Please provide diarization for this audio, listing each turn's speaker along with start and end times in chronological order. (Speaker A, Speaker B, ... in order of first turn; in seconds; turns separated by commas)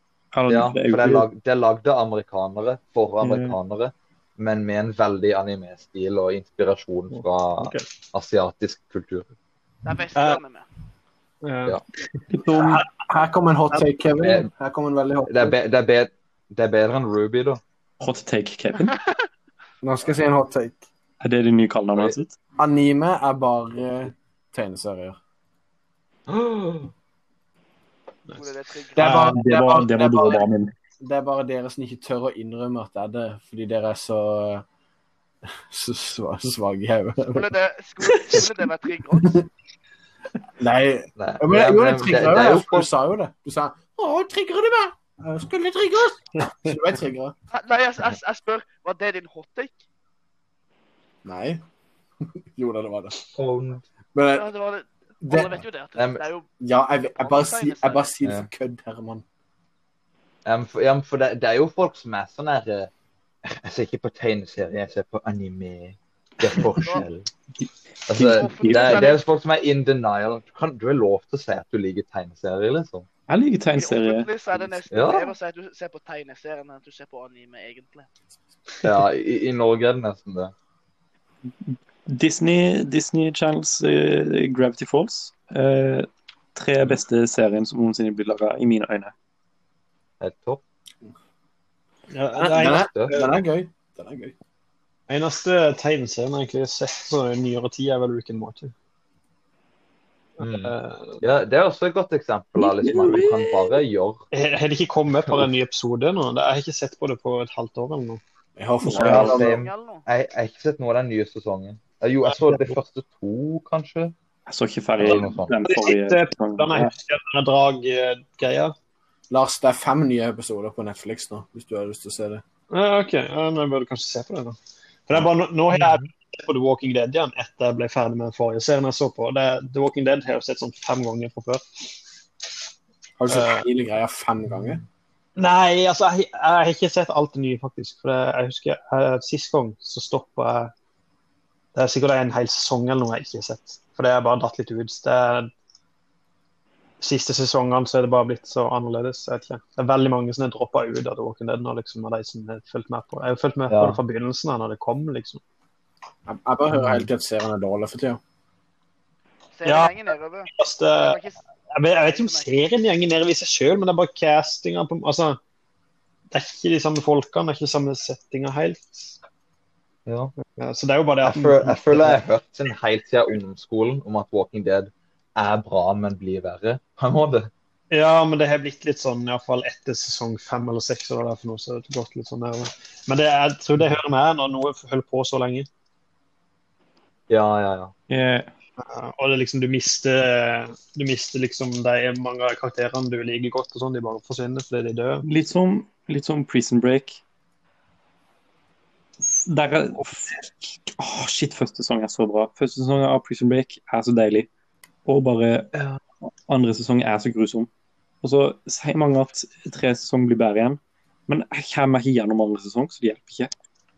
Speaker A: 0.3-1.3, Speaker B: 0.5-9.2, Speaker A: 3.2-3.6, Speaker C: 7.6-7.8, Speaker D: 9.8-10.7, Speaker C: 10.1-10.4, Speaker C: 11.4-13.0, Speaker A: 12.3-12.8, Speaker E: 13.1-15.5, Speaker B: 14.2-14.5, Speaker B: 15.2-17.6, Speaker A: 18.0-19.0, Speaker D: 18.8-19.3, Speaker E: 19.8-20.8, Speaker A: 21.2-22.3, Speaker E: 22.6-25.2, Speaker B: 26.3-26.9, Speaker C: 28.3-29.4, Speaker D: 28.3-29.3, Speaker E: 29.0-30.4, Speaker A: 29.2-30.7, Speaker E: 31.0-34.6, Speaker E: 35.7-37.5, Speaker D: 37.3-39.4, Speaker C: 38.1-38.5, Speaker E: 40.6-47.3, Speaker B: 41.2-42.9, Speaker D: 47.5-49.8, Speaker E: 51.2-51.6, Speaker E: 52.5-53.2, Speaker B: 53.3-53.8, Speaker E: 54.1-54.5, Speaker D: 54.3-56.5, Speaker E: 55.2-55.6, Speaker B: 56.0-56.2, Speaker E: 56.6-59.2, Speaker D: 57.1-58.1, Speaker B: 60.4-62.9, Speaker B: 63.4-67.3, Speaker B: 68.1-73.1, Speaker A: 68.1-69.2, Speaker D: 68.2-69.2, Speaker A: 73.3-74.3, Speaker D: 73.8-78.1, Speaker B: 74.9-75.3, Speaker B: 78.8-80.5, Speaker A: 81.6-89.1, Speaker B: 90.2-90.6, Speaker C: 92.1-93.3, Speaker E: 92.4-94.3, Speaker B: 92.6-93.1, Speaker C: 95.1-98.7, Speaker C: 100.4-101.2, Speaker B: 100.4-104.2, Speaker A: 102.5-103.8, Speaker C: 104.3-108.2, Speaker E: 108.6-109.6, Speaker A: 108.8-109.3, Speaker B: 108.9-114.1, Speaker C: 109.0-109.3, Speaker D: 109.2-110.0, Speaker C: 112.2-112.8, Speaker A: 114.5-116.9, Speaker B: 115.0-115.5, Speaker C: 115.6-118.7, Speaker E: 119.3-122.4, Speaker C: 122.7-124.6, Speaker C: 125.1-131.7, Speaker E: 133.2-134.8, Speaker C: 133.3-133.7, Speaker C: 135.3-140.7, Speaker C: 141.7-145.5, Speaker C: 147.0-155.4, Speaker B: 153.7-154.0, Speaker E: 156.3-158.2, Speaker B: 156.7-157.1, Speaker D: 159.5-160.5, Speaker C: 159.6-161.2, Speaker D: 161.0-161.4, Speaker C: 161.7-165.4, Speaker D: 162.0-162.5, Speaker C: 166.3-169.2, Speaker B: 170.1-170.3, Speaker C: 170.4-172.2, Speaker B: 171.2-177.5, Speaker C: 177.9-185.7, Speaker B: 187.3-187.9, Speaker A: 188.1-188.5, Speaker C: 188.8-195.2, Speaker A: 195.2-197.2, Speaker A: 199.2-204.5, Speaker A: 205.0-205.7, Speaker A: 206.5-207.7, Speaker A: 208.2-213.5